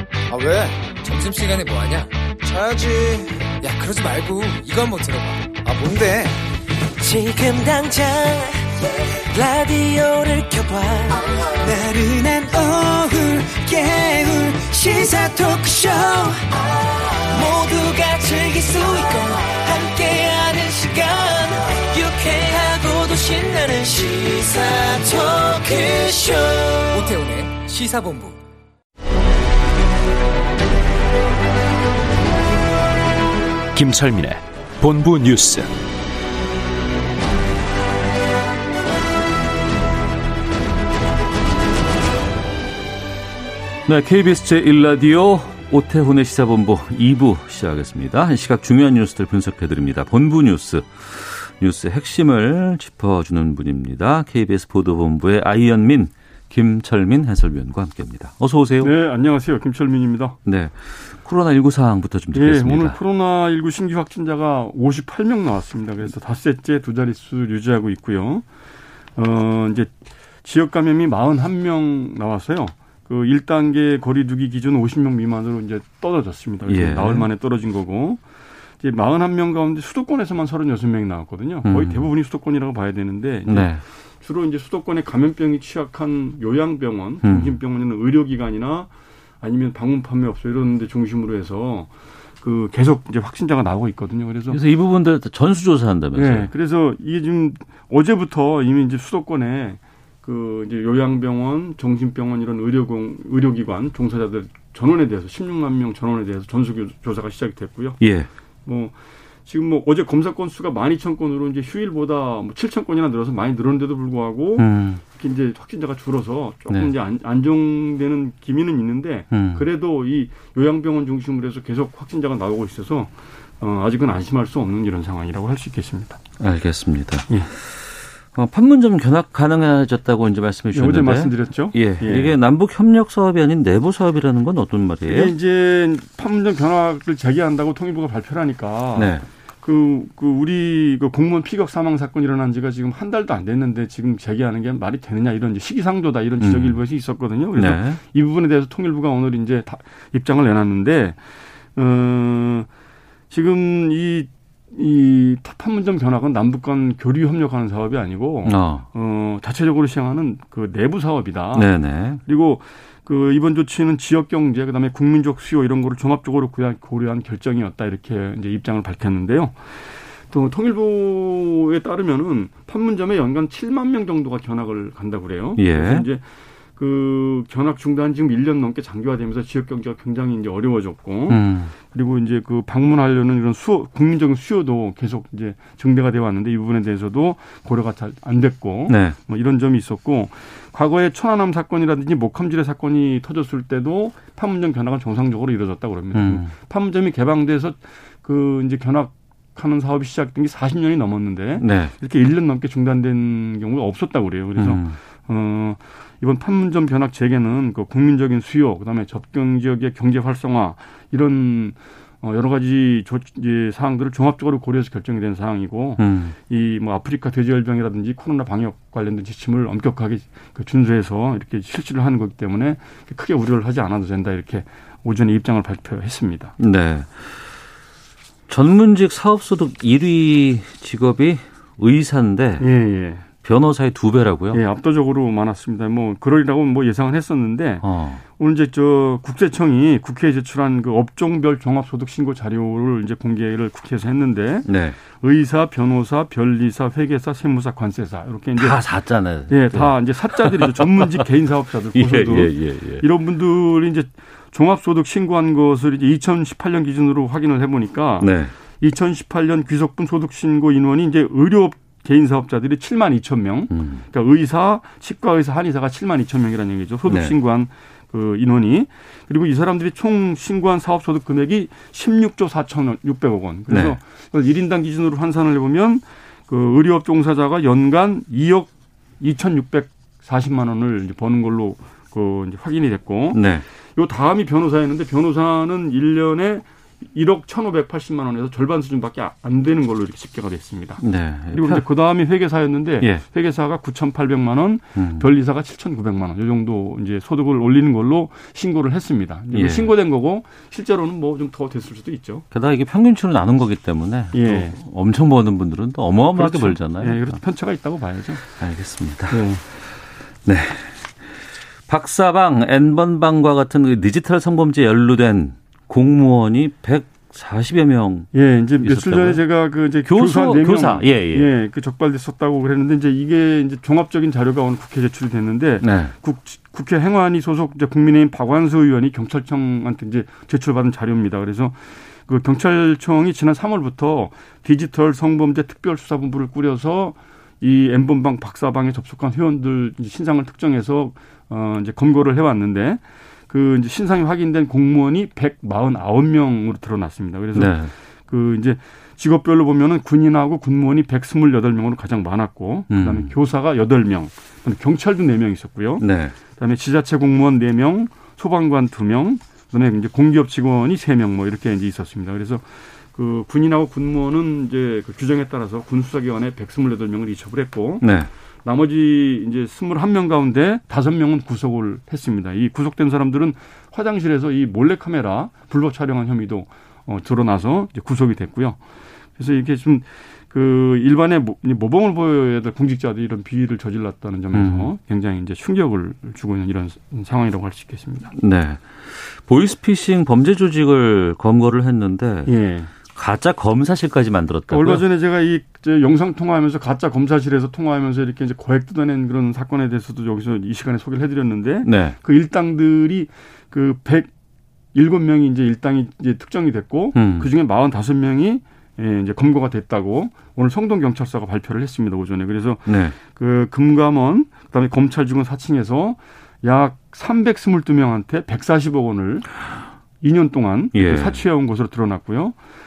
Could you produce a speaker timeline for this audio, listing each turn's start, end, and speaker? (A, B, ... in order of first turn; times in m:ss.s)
0:00.3-0:00.9 A
0:00.9-0:02.3 B
0:02.4-0:03.5 A
0:03.6-0:05.5 B
0:05.6-0:06.4 A
0:07.0-0:27.0 C
0:26.9-0:28.4 B
0:33.7-0:35.7 D
0:43.8-0:58.9 E
0:58.8-1:00.4 F
1:00.4-1:03.0 E
1:02.3-1:08.4 F
1:09.2-1:09.9 F
1:10.4-1:18.2 F
1:16.6-1:17.3 E
1:18.8-1:28.9 F
1:21.6-1:22.1 E
1:23.5-1:23.8 E
1:27.2-1:27.6 E
1:29.4-1:31.9 F
1:32.4-1:34.6 F
1:34.5-1:36.5 E
1:36.2-1:48.0 F
1:48.0-1:48.3 E
1:48.6-1:48.9 F
1:49.5-2:06.2 F
1:54.6-1:55.0 E
1:59.3-1:59.6 E
2:06.4-2:07.3 E
2:08.3-2:15.3 E
2:10.7-2:12.3 F
2:15.1-2:31.2 F
2:19.0-2:19.2 E
2:26.4-2:26.8 E
2:27.6-2:28.0 E
2:31.8-2:32.7 F
2:33.3-2:41.7 F
2:38.4-2:38.8 E
2:41.5-2:42.2 E
2:42.2-2:49.5 F
2:50.3-2:56.2 F
2:55.6-2:56.0 E
2:56.8-3:46.5 F
3:01.3-3:01.7 E
3:08.9-3:09.2 E
3:16.1-3:16.5 E
3:21.6-3:21.9 E
3:24.6-3:25.0 E
3:36.0-3:36.4 E
3:46.6-3:47.3 E
3:48.5-3:52.6 E
3:52.6-3:53.2 F
3:53.4-3:54.6 E
3:54.5-3:57.8 F
3:57.8-3:58.2 E
3:58.4-4:08.8 F
4:04.6-4:05.0 E
4:08.6-4:11.3 E
4:09.5-4:43.4 F
4:11.9-4:13.0 E
4:18.2-4:18.5 E
4:23.7-4:24.0 E
4:27.1-4:27.3 E
4:33.7-4:34.0 E
4:43.3-4:43.6 E
4:44.0-5:02.4 F
4:51.0-4:51.8 E
4:55.0-4:55.2 E
4:59.5-4:59.9 E
5:02.5-5:07.4 E
5:04.3-5:04.8 F
5:06.3-5:08.4 F
5:08.6-5:09.5 E
5:09.3-5:09.6 F
5:10.4-5:11.1 E
5:11.9-5:18.3 E
5:18.3-5:31.8 F
5:18.8-5:19.4 E
5:20.0-5:21.5 E
5:25.8-5:26.1 E
5:32.3-5:47.8 F
5:47.5-5:47.9 E
5:48.3-6:02.6 F
5:52.9-5:53.3 E
5:56.0-5:56.4 E
6:03.1-6:08.0 F
6:08.0-6:08.3 E
6:08.6-6:18.8 F
6:19.4-6:28.3 F
6:24.5-6:24.9 E
6:28.3-6:32.5 E
6:32.4-6:32.9 F
6:33.1-6:35.0 E
6:34.7-6:44.3 F
6:41.8-6:42.2 E
6:44.9-6:59.5 F
6:47.1-6:47.5 E
6:52.8-6:53.2 E
7:00.2-7:02.6 F
7:00.9-7:01.4 E